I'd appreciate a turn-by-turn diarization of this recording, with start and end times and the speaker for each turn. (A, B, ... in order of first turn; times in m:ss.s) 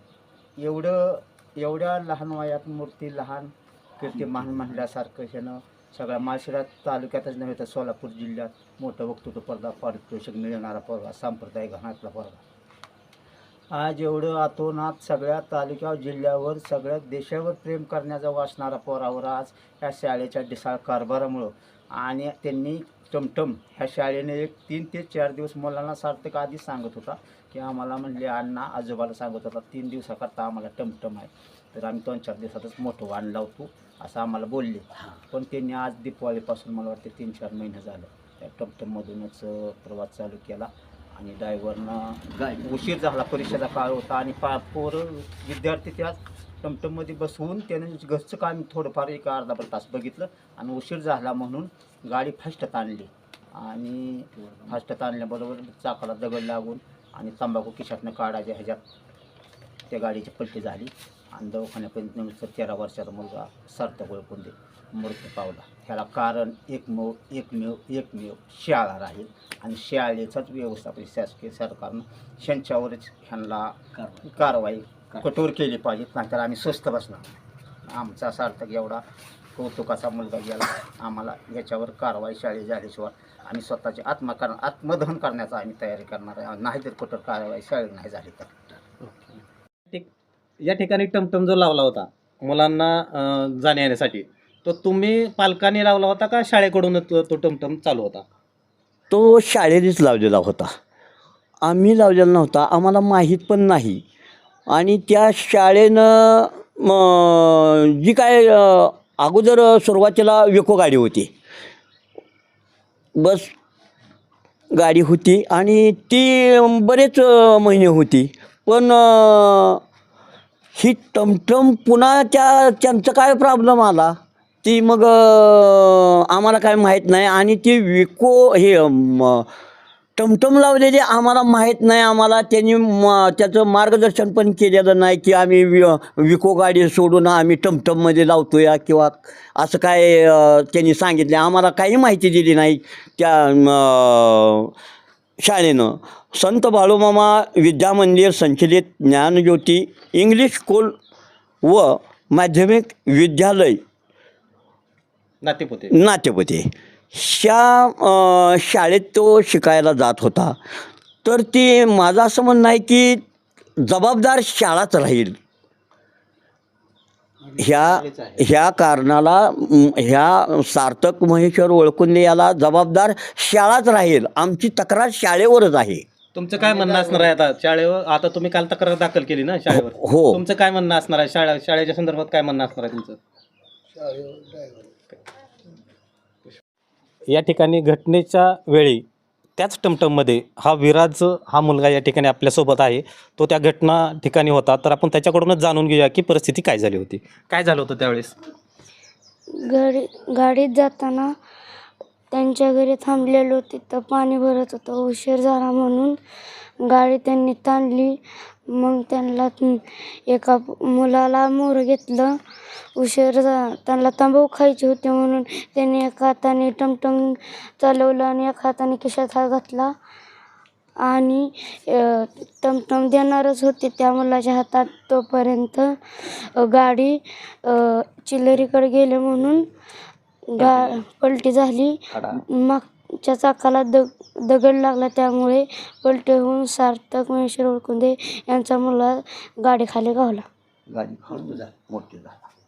0:00.6-0:12.4 A
0:13.7-0:58.8 A
0:59.9-1:19.0 A
1:19.6-1:28.5 A
1:30.6-1:38.2 B
1:39.1-1:40.7 C
1:41.6-1:44.0 C
1:44.7-1:51.3 C
1:53.2-1:53.5 C
1:54.7-1:59.8 C
2:00.8-2:09.5 C
2:10.2-2:24.7 C
2:25.4-2:31.0 C
2:31.6-2:33.8 C
2:35.4-2:35.9 B
2:35.9-2:40.6 C
2:41.2-2:43.2 C
2:43.8-2:45.4 C
2:47.6-2:48.4 B
2:47.6-2:56.1 C
2:56.4-3:03.2 B
2:59.7-3:00.4 C
3:07.3-3:09.0 B
3:09.6-3:18.4 B
3:19.6-3:21.3 D
3:22.3-3:26.2 D
3:26.8-3:28.2 D
3:28.7-3:32.4 D
3:33.0-3:39.9 D
3:41.0-3:46.0 D
3:46.6-3:49.7 D
3:50.5-4:00.5 D
4:00.9-4:02.4 C